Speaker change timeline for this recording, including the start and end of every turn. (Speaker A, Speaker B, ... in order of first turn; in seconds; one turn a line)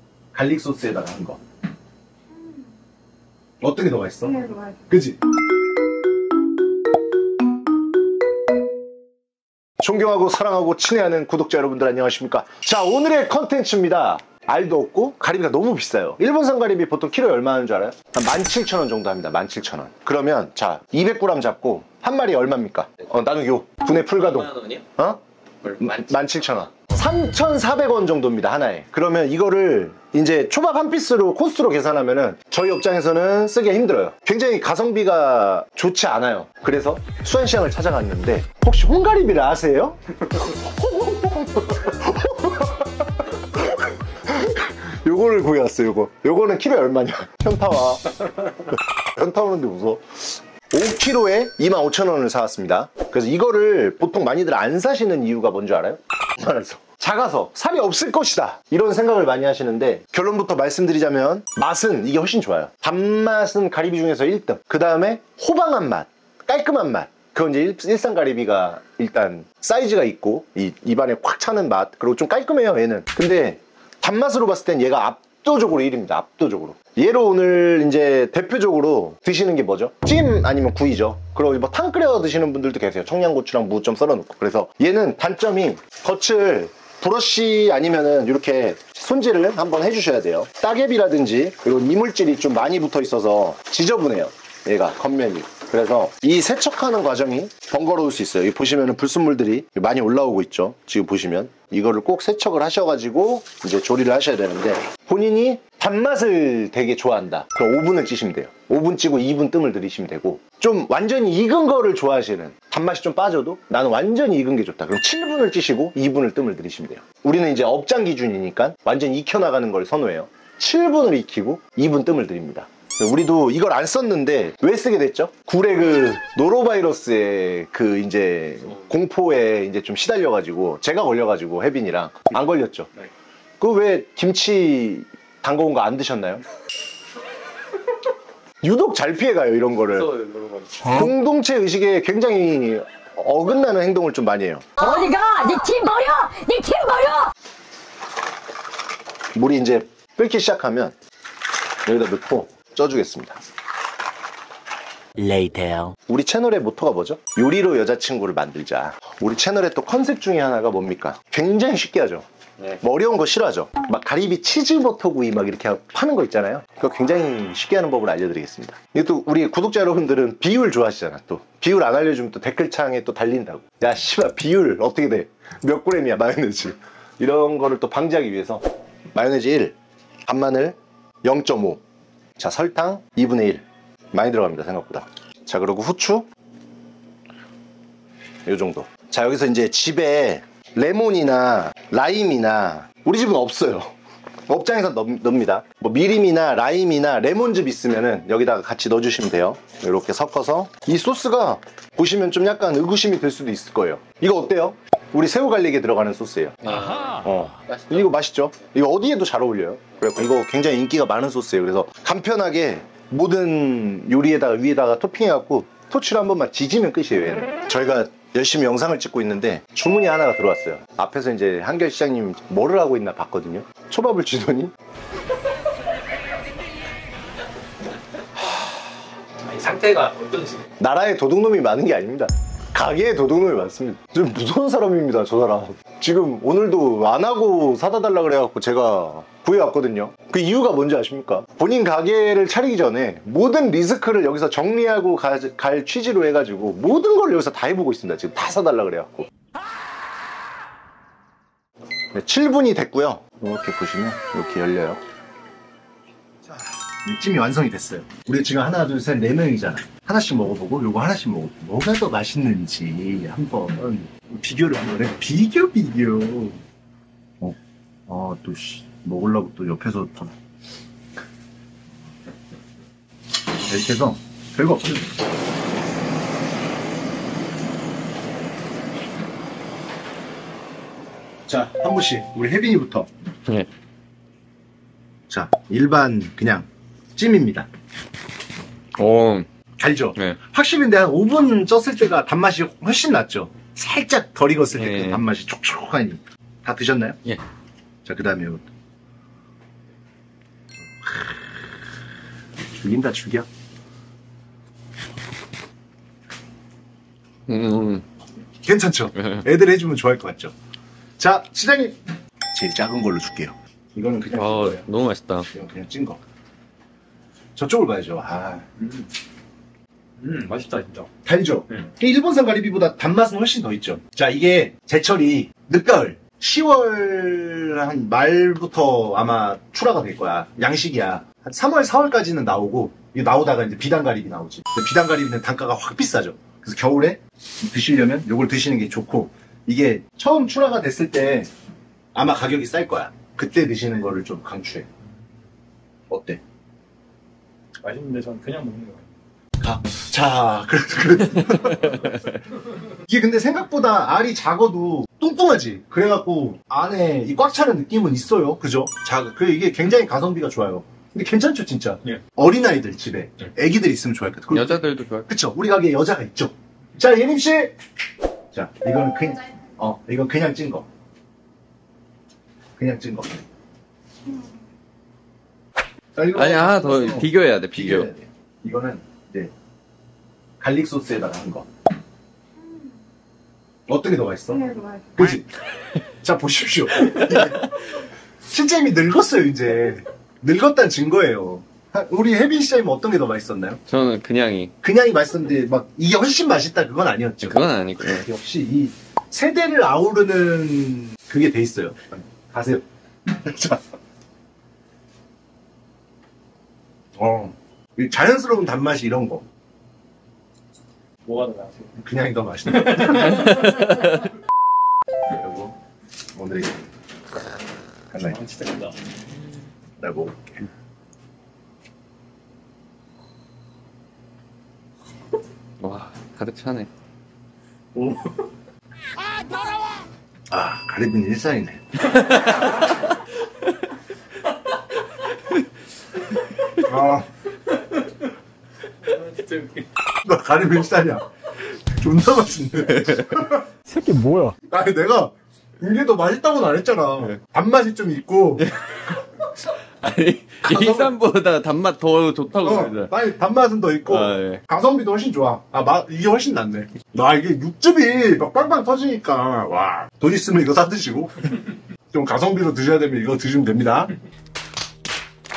Speaker A: 0.3-1.4
Speaker A: 3.6-5.2
Speaker A: 9.8-25.2
Speaker B: 24.5-24.8
Speaker A: 25.7-48.1
Speaker A: 49.1-50.1
Speaker A: 50.7-132.9
Speaker A: 133.6-136.4
Speaker A: 138.6-140.1
Speaker B: 140.1-140.8
Speaker A: 140.8-144.7
Speaker C: 144.8-147.3
Speaker A: 149.3-150.9
Speaker A: 151.8-153.4
Speaker C: 155.2-155.9
Speaker A: 156.0-162.2
Speaker A: 162.8-179.8
Speaker A: 180.3-181.8
Speaker A: 182.4-186.3
Speaker A: 188.4-193.9
Speaker A: 194.5-224.7
Speaker B: 206.6-207.2
Speaker B: 229.6-230.5
Speaker D: 229.6-230.4
Speaker A: 230.8-249.3
Speaker A: 252.1-255.0
Speaker A: 256.5-266.6
Speaker A: 268.1-270.3
Speaker A: 273.7-275.0
Speaker A: 281.5-283.1
Speaker A: 285.3-287.7
Speaker B: 289.0-289.4
Speaker A: 289.8-297.2
Speaker B: 294.7-295.2
Speaker A: 298.0-298.6
Speaker A: 301.0-301.3
Speaker A: 302.7-303.5
Speaker B: 307.5-308.0
Speaker A: 308.6-310.5
Speaker A: 311.2-312.0
Speaker A: 312.5-314.9
Speaker B: 314.3-315.5
Speaker A: 315.5-316.2
Speaker A: 317.6-318.7
Speaker D: 320.2-321.1
Speaker A: 321.2-341.5
Speaker A: 342.1-344.9
Speaker A: 346.1-346.4
Speaker D: 347.8-349.0
Speaker A: 349.6-352.3
Speaker A: 353.0-367.7
Speaker B: 364.5-365.3
Speaker A: 368.5-370.9
Speaker A: 372.8-373.4
Speaker A: 376.1-379.5
Speaker B: 376.3-378.1
Speaker A: 380.6-381.7
Speaker A: 383.9-385.5
Speaker A: 386.2-387.9
Speaker A: 388.4-393.8
Speaker B: 393.9-394.7
Speaker A: 394.8-403.8
Speaker B: 397.4-398.3
Speaker A: 407.1-409.4
Speaker D: 411.2-411.9
Speaker A: 411.9-414.0
Speaker A: 415.3-415.8
Speaker A: 416.3-416.8
Speaker A: 418.1-418.4
Speaker D: 418.3-418.9
Speaker A: 420.0-420.6
Speaker B: 425.8-426.9
Speaker D: 427.9-428.3
Speaker A: 430.5-432.0
Speaker B: 432.1-432.7
Speaker A: 436.8-437.3
Speaker B: 439.2-439.7
Speaker A: 440.1-441.3
Speaker A: 441.9-443.7
Speaker B: 442.9-443.4
Speaker D: 443.9-444.5
Speaker A: 444.6-448.7
Speaker B: 448.6-449.1
Speaker B: 450.0-453.1
Speaker A: 450.7-451.1
Speaker A: 452.6-461.3
Speaker B: 454.1-454.6
Speaker A: 462.1-464.1